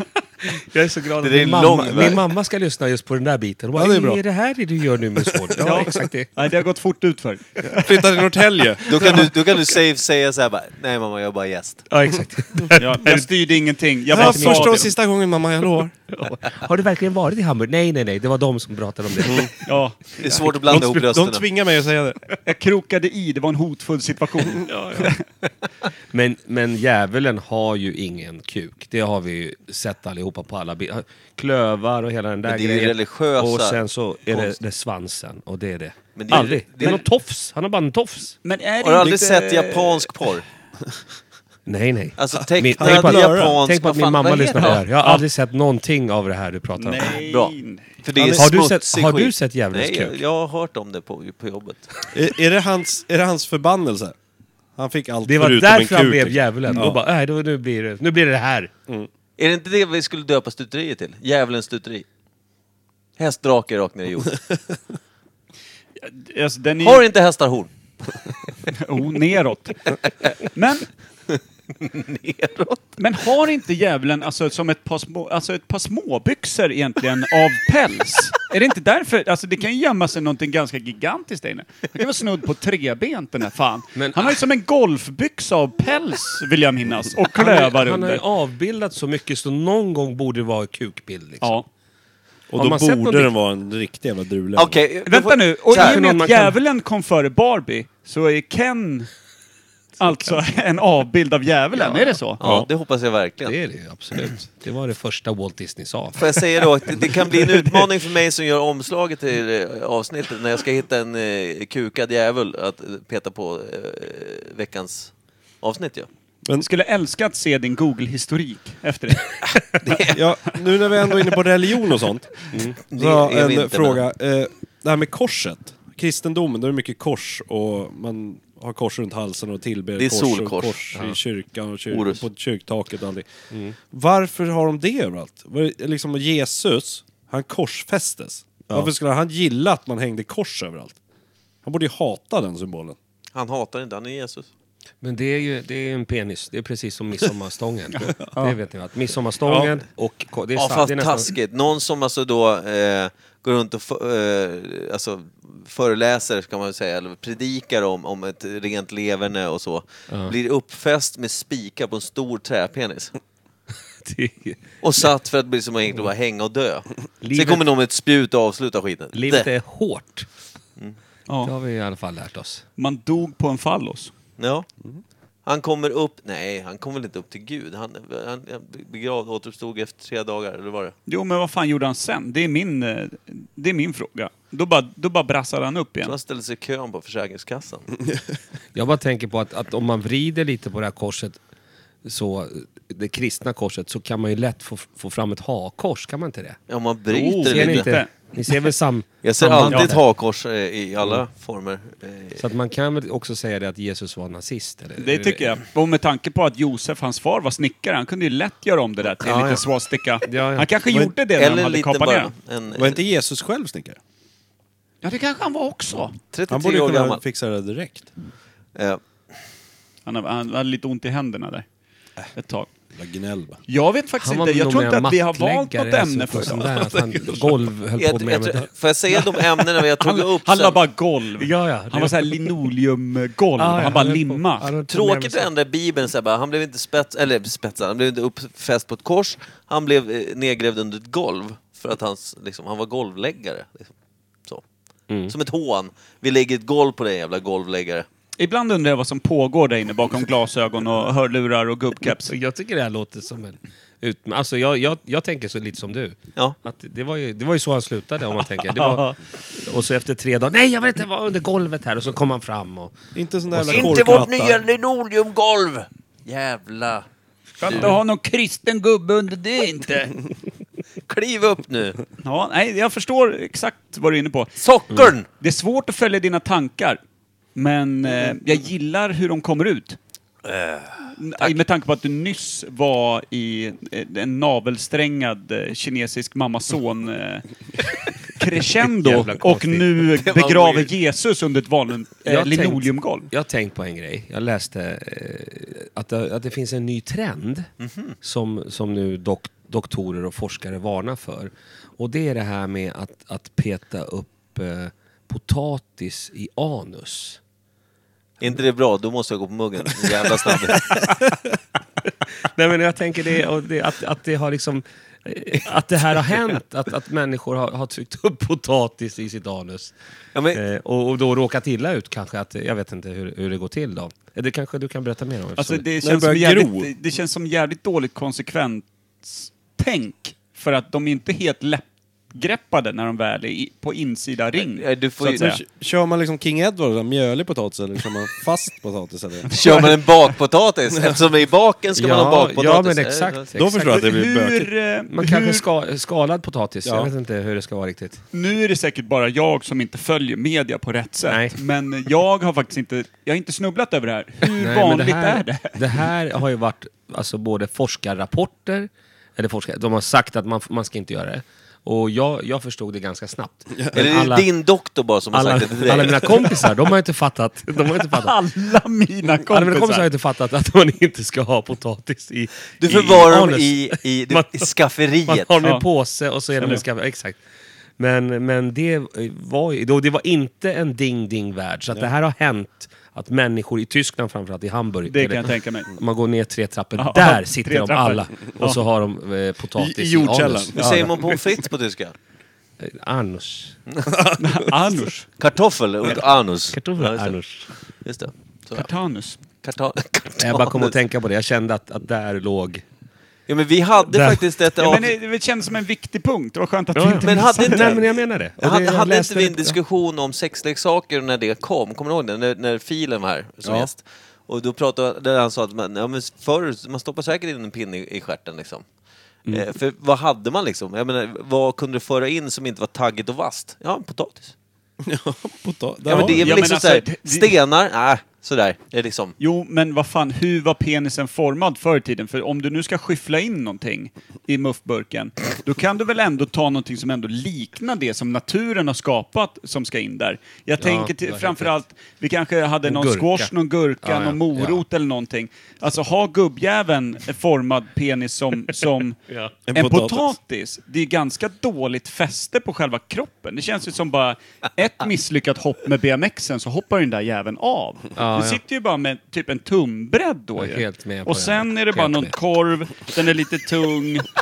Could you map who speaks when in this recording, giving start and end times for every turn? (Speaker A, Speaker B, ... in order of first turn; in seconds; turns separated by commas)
Speaker A: 0.5-6.3, Speaker B: 1.2-2.2, Speaker C: 3.8-4.2, Speaker C: 5.3-6.0, Speaker D: 5.6-7.9, Speaker C: 7.7-9.3, Speaker B: 8.9-11.9, Speaker A: 11.9-13.3, Speaker D: 12.8-14.9, Speaker A: 14.1-14.9, Speaker C: 14.1-15.9, Speaker A: 16.1-19.5, Speaker C: 19.2-19.5, Speaker D: 19.6-20.4, Speaker B: 20.2-21.5, Speaker A: 20.7-21.0, Speaker C: 20.7-22.2, Speaker D: 22.4-25.2, Speaker A: 24.6-25.1, Speaker A: 26.1-38.4, Speaker B: 32.5-33.8, Speaker B: 36.2-37.0, Speaker D: 38.4-40.1, Speaker B: 38.8-40.5, Speaker A: 41.7-47.1, Speaker B: 42.2-44.8, Speaker C: 42.8-43.6, Speaker D: 44.6-45.2, Speaker D: 46.8-47.9, Speaker B: 47.0-51.9, Speaker C: 48.2-48.5, Speaker A: 48.4-50.2, Speaker C: 52.1-54.1, Speaker C: 54.8-57.0, Speaker A: 55.2-58.7, Speaker B: 59.4-62.0, Speaker B: 63.2-64.4, Speaker D: 66.0-67.0, Speaker B: 66.8-67.7, Speaker D: 68.7-69.9, Speaker D: 70.5-70.9, Speaker B: 71.3-72.9, Speaker D: 73.0-88.2, Speaker A: 84.0-84.4, Speaker A: 87.3-91.6, Speaker C: 92.5-94.8, Speaker A: 92.5-93.3, Speaker B: 94.6-96.0, Speaker D: 95.1-99.1, Speaker A: 95.7-96.6, Speaker D: 100.0-102.4, Speaker A: 100.0-100.4, Speaker A: 101.8-102.2, Speaker B: 102.4-103.6, Speaker C: 102.4-102.7, Speaker A: 103.5-106.4, Speaker B: 106.2-115.1, Speaker B: 115.6-116.1, Speaker D: 116.6-119.3, Speaker B: 119.8-120.2, Speaker C: 120.1-122.5, Speaker A: 122.5-122.8, Speaker B: 122.9-124.0, Speaker C: 123.0-133.3, Speaker B: 130.0-130.8, Speaker A: 130.9-131.2, Speaker B: 131.9-132.2, Speaker A: 133.5-133.8, Speaker C: 133.9-141.0, Speaker C: 141.7-143.0, Speaker B: 143.3-144.5, Speaker A: 145.0-151.3, Speaker D: 148.1-148.6, Speaker C: 149.5-149.7, Speaker B: 150.6-163.2, Speaker A: 164.0-164.8, Speaker B: 164.8-169.5, Speaker A: 167.2-167.7, Speaker A: 169.1-170.3, Speaker A: 171.4-172.7, Speaker D: 172.8-174.1, Speaker B: 174.4-174.7, Speaker B: 175.5-180.9, Speaker D: 181.1-186.2, Speaker B: 186.0-187.9, Speaker A: 188.7-191.4, Speaker A: 192.0-196.6, Speaker B: 196.7-197.9, Speaker D: 197.1-198.1, Speaker A: 197.5-200.0, Speaker B: 199.2-202.4, Speaker D: 199.7-199.9, Speaker A: 202.4-205.5, Speaker D: 205.0-212.3, Speaker A: 209.2-209.7, Speaker A: 210.2-210.7, Speaker B: 211.4-213.0, Speaker C: 212.8-214.0, Speaker D: 215.0-216.1, Speaker B: 216.3-217.2, Speaker C: 216.5-218.1, Speaker D: 220.1-221.7, Speaker D: 222.3-222.7, Speaker C: 222.9-223.6, Speaker D: 223.7-226.8, Speaker A: 224.2-228.7, Speaker C: 226.8-227.5, Speaker B: 228.0-230.8, Speaker D: 230.0-234.7, Speaker A: 231.4-232.5, Speaker A: 233.6-235.5, Speaker B: 234.9-243.9, Speaker B: 245.3-248.1, Speaker D: 248.4-252.3, Speaker A: 252.2-263.0, Speaker D: 258.6-259.2, Speaker C: 263.1-264.6, Speaker A: 263.5-264.2, Speaker B: 263.7-267.1, Speaker B: 267.6-267.9, Speaker D: 267.6-270.1, Speaker B: 271.1-272.0, Speaker D: 272.2-274.5, Speaker B: 274.6-275.3, Speaker D: 275.4-277.0, Speaker D: 277.6-280.0, Speaker B: 280.4-281.6, Speaker D: 281.2-293.3, Speaker A: 288.8-290.1, Speaker B: 290.2-290.9, Speaker A: 292.3-297.7, Speaker B: 297.8-298.1, Speaker A: 298.2-307.4, Speaker B: 308.4-311.1, Speaker A: 312.4-320.0, Speaker B: 320.4-320.6, Speaker A: 320.5-325.9, Speaker D: 325.6-335.6, Speaker C: 326.0-326.9, Speaker B: 334.6-335.5, Speaker C: 335.3-339.6, Speaker B: 339.5-343.5, Speaker D: 339.6-339.8, Speaker A: 342.0-344.0, Speaker C: 343.5-344.7, Speaker D: 343.7-345.6, Speaker A: 345.1-348.2, Speaker C: 346.9-347.1, Speaker D: 348.3-355.9, Speaker A: 351.3-351.6, Speaker A: 354.6-364.5, Speaker B: 363.9-366.4, Speaker A: 365.3-368.4, Speaker D: 368.0-370.1, Speaker A: 369.5-374.7, Speaker B: 372.8-375.6, Speaker A: 375.3-377.4, Speaker A: 378.0-390.8, Speaker D: 385.1-385.9, Speaker D: 387.0-388.8, Speaker C: 389.8-391.1, Speaker B: 390.8-392.1, Speaker A: 392.8-393.8, Speaker C: 394.1-394.4, Speaker D: 394.4-395.3, Speaker B: 395.4-397.4, Speaker A: 396.7-397.7, Speaker B: 398.0-398.9, Speaker D: 398.7-399.4, Speaker B: 399.6-400.9, Speaker A: 400.4-402.9, Speaker B: 403.5-405.1, Speaker A: 404.1-404.4, Speaker D: 404.8-407.9, Speaker A: 406.9-409.8, Speaker B: 407.2-418.8, Speaker C: 413.6-413.9, Speaker B: 419.5-424.6, Speaker C: 425.0-426.4, Speaker B: 426.1-429.4, Speaker D: 426.1-427.5, Speaker D: 429.4-449.2, Speaker A: 440.8-441.7, Speaker A: 442.8-444.9, Speaker A: 449.3-449.5, Speaker C: 449.7-450.4, Speaker D: 449.7-464.3, Speaker A: 458.2-458.6, Speaker A: 460.6-462.3